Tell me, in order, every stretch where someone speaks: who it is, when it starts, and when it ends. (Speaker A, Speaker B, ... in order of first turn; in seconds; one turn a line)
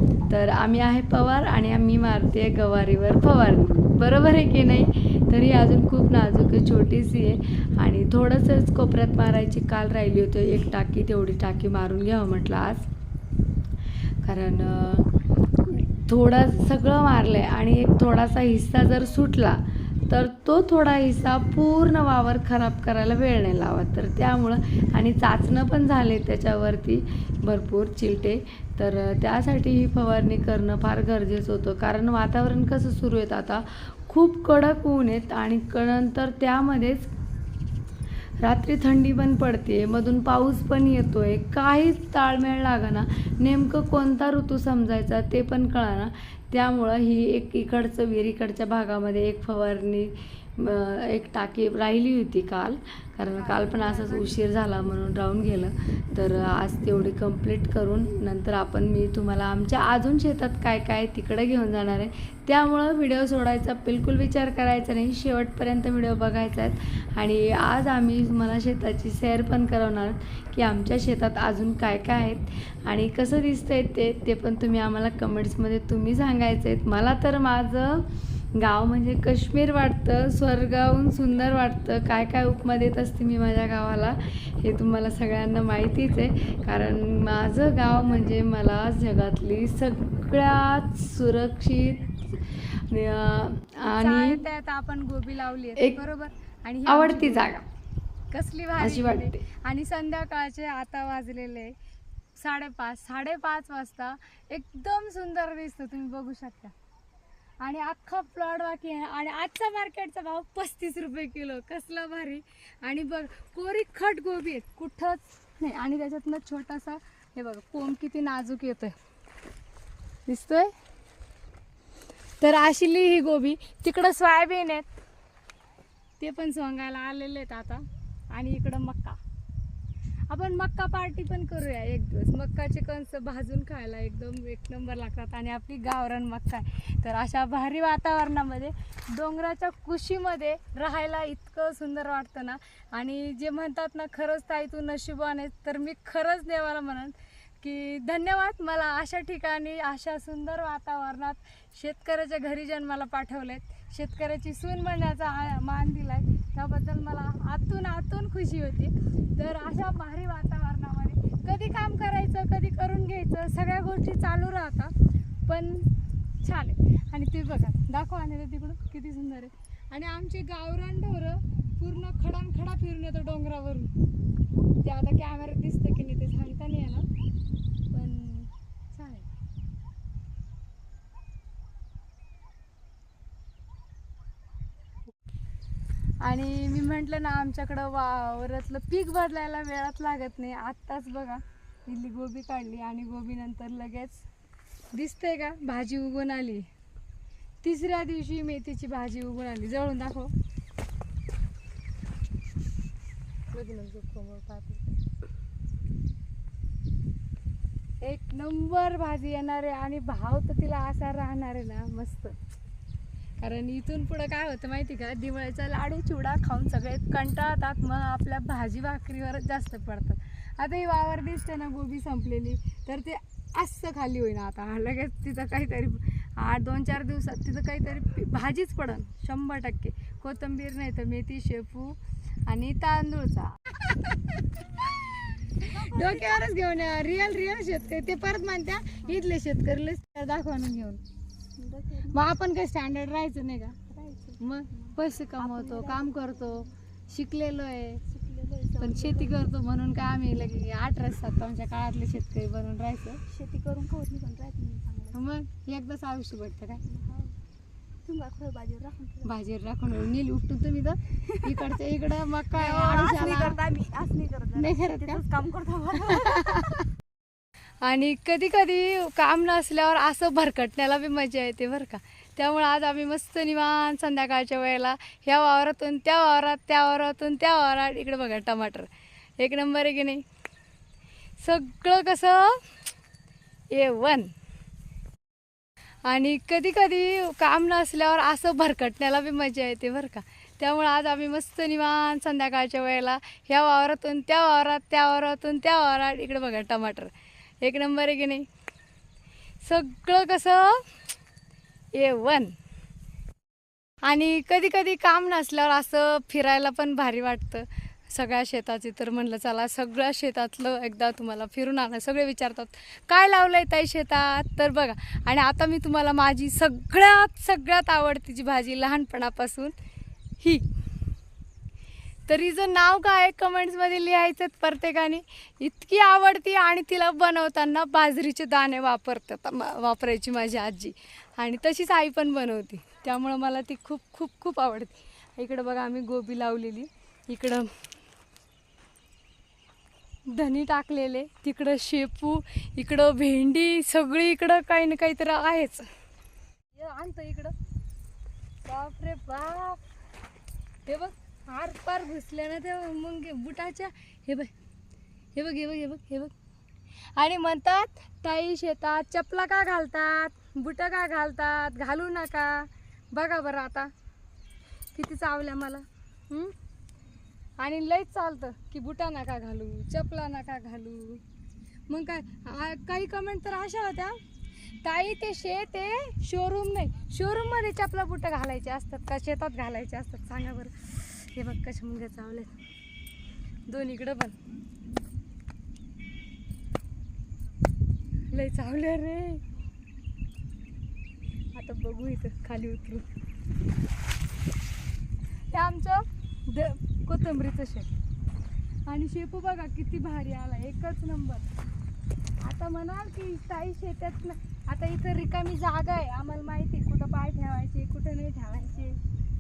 Speaker A: 0.3-12.9
Speaker A: 14.2-15.1
Speaker A: 15.6-37.1
Speaker A: 38.4-94.4
Speaker B: 53.3-55.2
Speaker B: 94.0-97.6
Speaker A: 96.8-97.7
Speaker B: 98.3-101.8
Speaker A: 98.8-99.4
Speaker B: 102.4-106.7
Speaker B: 107.6-119.0
Speaker B: 120.3-120.7
Speaker B: 122.4-124.9
Speaker B: 126.2-129.2
Speaker B: 130.3-164.9
Speaker B: 165.5-165.9
Speaker B: 166.4-173.9
Speaker B: 174.8-177.1
Speaker B: 177.9-179.3
Speaker B: 186.2-194.3
Speaker B: 194.9-196.7
Speaker B: 197.6-200.3
Speaker B: 203.5-204.9
Speaker B: 208.0-212.3
Speaker B: 213.4-233.9
Speaker B: 235.6-241.0
Speaker C: 235.7-236.4
Speaker C: 241.6-242.2
Speaker B: 242.1-248.1
Speaker C: 244.3-246.5
Speaker C: 248.1-249.4
Speaker B: 248.8-253.2
Speaker C: 253.3-255.1
Speaker B: 255.1-256.9
Speaker C: 256.9-257.3
Speaker C: 258.1-259.3
Speaker B: 259.2-263.6
Speaker C: 261.3-261.7
Speaker C: 262.5-266.6
Speaker B: 264.6-265.2
Speaker B: 265.9-266.9
Speaker B: 267.8-280.2
Speaker B: 281.4-282.6
Speaker B: 283.7-284.3
Speaker B: 286.1-298.5
Speaker B: 299.6-300.9
Speaker B: 301.9-302.5
Speaker B: 304.0-319.7
Speaker B: 320.4-320.7
Speaker B: 322.3-337.7
Speaker B: 340.3-345.9
Speaker B: 346.7-347.5
Speaker B: 348.6-349.8
Speaker B: 350.9-354.5
Speaker B: 355.3-356.3
Speaker B: 357.1-363.9
Speaker B: 364.9-366.5
Speaker B: 367.6-371.2
Speaker B: 371.9-374.2
Speaker B: 374.8-382.5
Speaker B: 383.7-384.4
Speaker B: 388.3-389.4
Speaker B: 391.5-393.1
Speaker B: 395.5-397.9
Speaker B: 398.9-401.5
Speaker B: 402.4-409.0